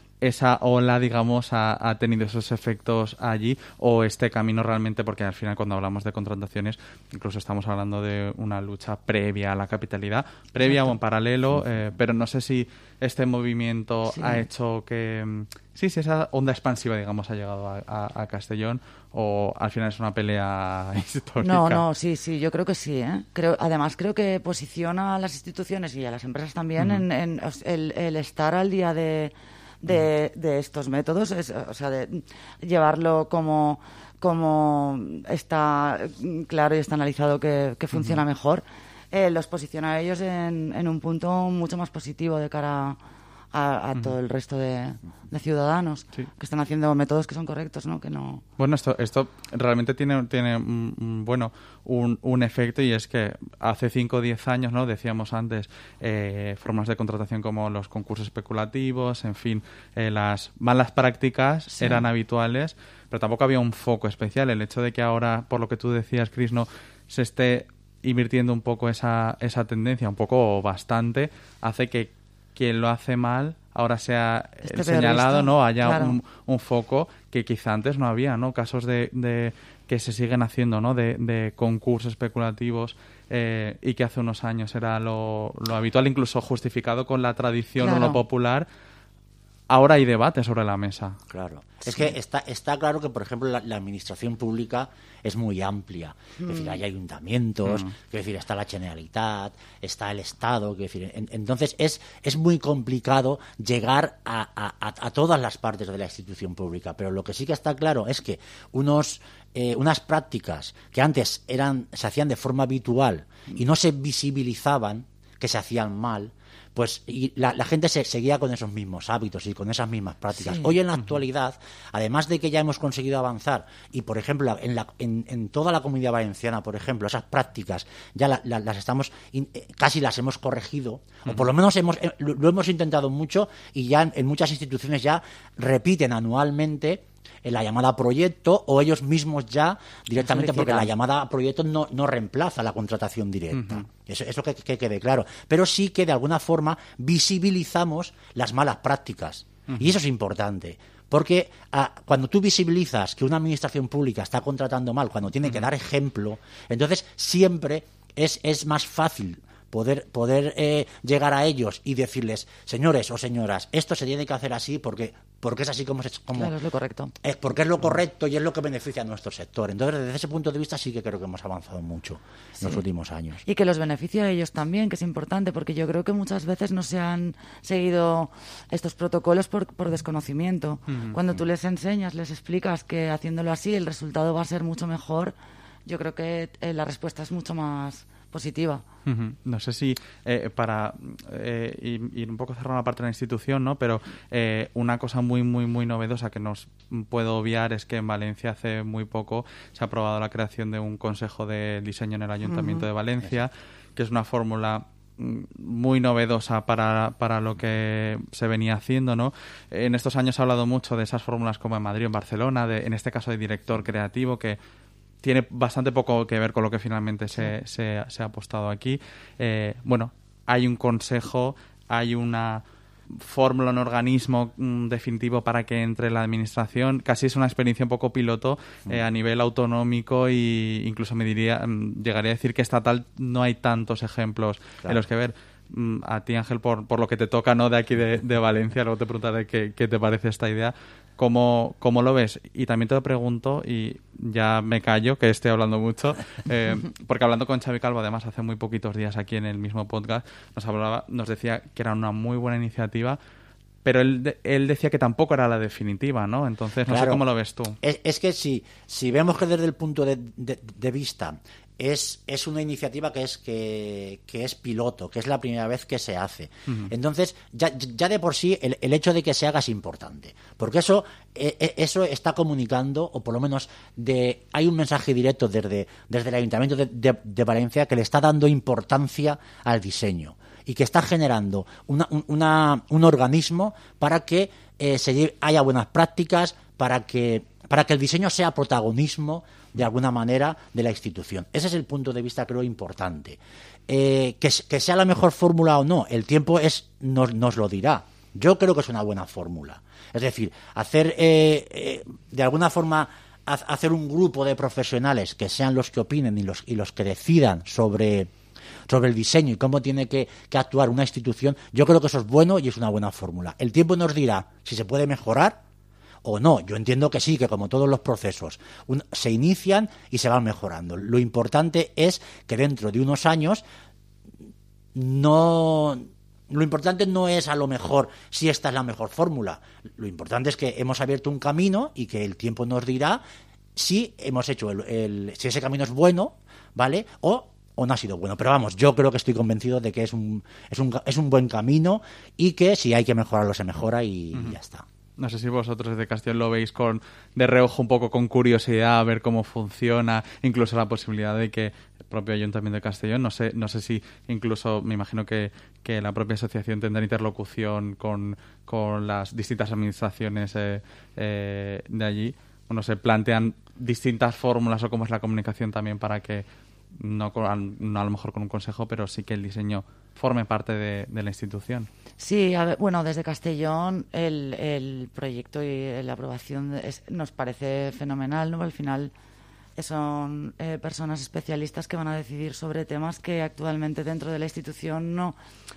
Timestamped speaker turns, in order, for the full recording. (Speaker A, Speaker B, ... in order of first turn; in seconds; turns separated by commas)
Speaker A: 0.2-21.8, Speaker B: 10.6-10.9, Speaker B: 14.1-14.4, Speaker B: 21.4-43.0, Speaker A: 26.8-27.0, Speaker B: 43.5-48.4, Speaker A: 48.6-88.7, Speaker B: 61.8-62.0, Speaker B: 74.7-76.2, Speaker B: 87.8-88.2, Speaker A: 89.7-91.2, Speaker C: 91.3-166.5, Speaker B: 96.4-96.7, Speaker B: 120.4-120.8, Speaker B: 140.2-140.9, Speaker A: 143.6-143.8, Speaker B: 166.3-167.1, Speaker C: 167.2-173.4, Speaker B: 173.4-185.3, Speaker A: 180.9-181.2, Speaker B: 185.8-188.8, Speaker A: 189.1-214.6, Speaker A: 215.2-253.2, Speaker A: 253.8-257.8, Speaker C: 256.9-257.2, Speaker C: 257.8-308.3, Speaker C: 308.9-315.6, Speaker C: 316.2-323.6, Speaker C: 324.9-333.2, Speaker C: 333.7-344.8, Speaker A: 345.2-371.9, Speaker B: 372.2-379.1, Speaker B: 379.8-385.4